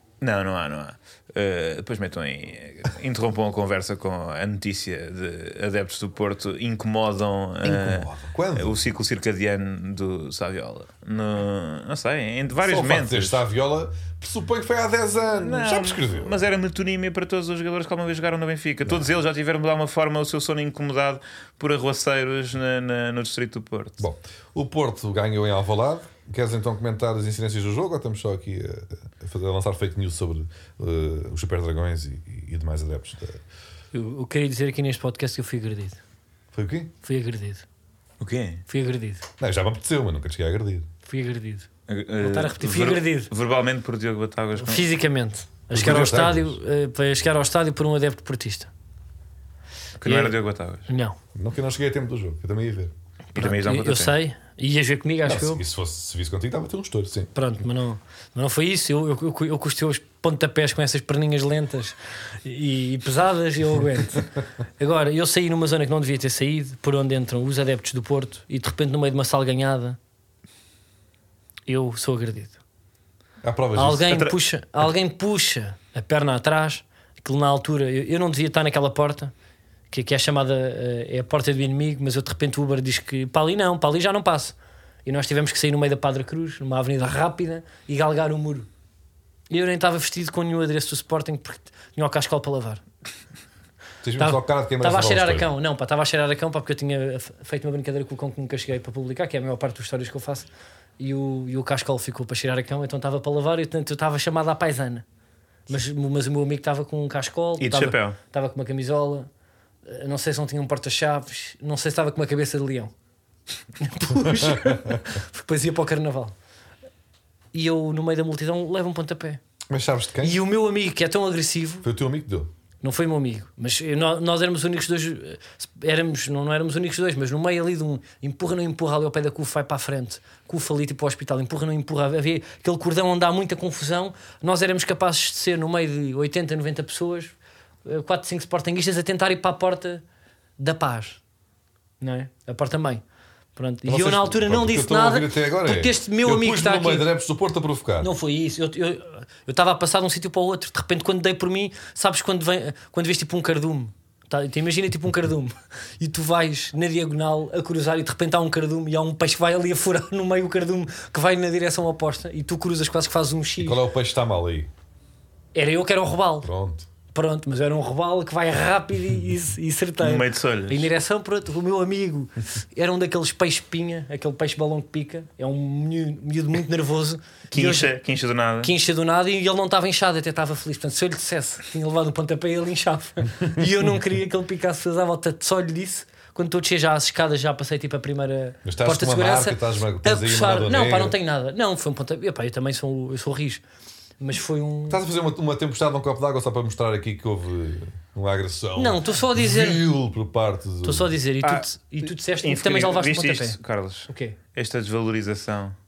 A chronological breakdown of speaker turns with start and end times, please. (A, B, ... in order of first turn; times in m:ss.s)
0:00.2-0:13.4 A
0:07.6-0:08.8 B
0:12.6-0:16.4 B
0:15.4-0:24.0 A
0:24.0-0:33.4 B
0:33.9-0:36.0 C
0:36.5-0:36.9 B
0:37.0-0:37.6 C
0:38.2-0:38.6 A
0:38.7-0:39.2 C
0:39.4-0:40.9 B
0:41.1-0:41.7 C
0:41.9-0:44.9 A
0:42.2-0:43.3 C
0:44.6-0:48.7 C
0:45.7-0:46.6 B
0:50.0-0:50.9 A
0:50.0-0:51.2 C
0:51.4-0:52.9 B
0:53.4-0:54.2 A
0:53.4-0:55.6 C
0:55.3-0:57.3 B
0:57.4-1:04.3 C
1:04.8-1:10.0 C
1:11.7-1:12.6 C
1:13.4-1:14.2 B
1:13.8-1:19.3 C
1:19.9-1:28.7 C
1:29.5-1:32.8 C
1:34.0-1:35.5 B
1:34.2-1:40.5 C
1:41.0-1:45.0 C
1:45.7-1:49.3 C
1:47.6-1:48.2 A
1:49.8-1:52.9 C
1:53.8-1:56.4 C
1:54.3-1:55.0 B
1:57.5-1:59.4 C
1:59.7-2:00.4 B
2:00.2-2:01.9 C
2:01.8-2:02.5 B
2:02.8-2:20.0 C
2:20.6-2:21.2 C
2:22.0-2:23.0 C
2:23.6-2:27.1 C
2:23.9-2:28.1 B
2:28.0-2:43.8 C
2:43.6-2:44.7 B
2:45.5-2:46.5 C
2:46.4-2:46.9 B
2:47.1-2:58.0 C
2:50.0-2:50.9 A
2:57.5-2:58.7 A
2:58.6-3:13.6 C
3:08.6-3:11.2 B
3:14.2-3:15.0 C
3:14.9-3:21.2 B
3:18.8-3:19.8 C
3:20.8-3:23.6 C
3:21.4-3:25.8 A
3:24.1-3:24.4 C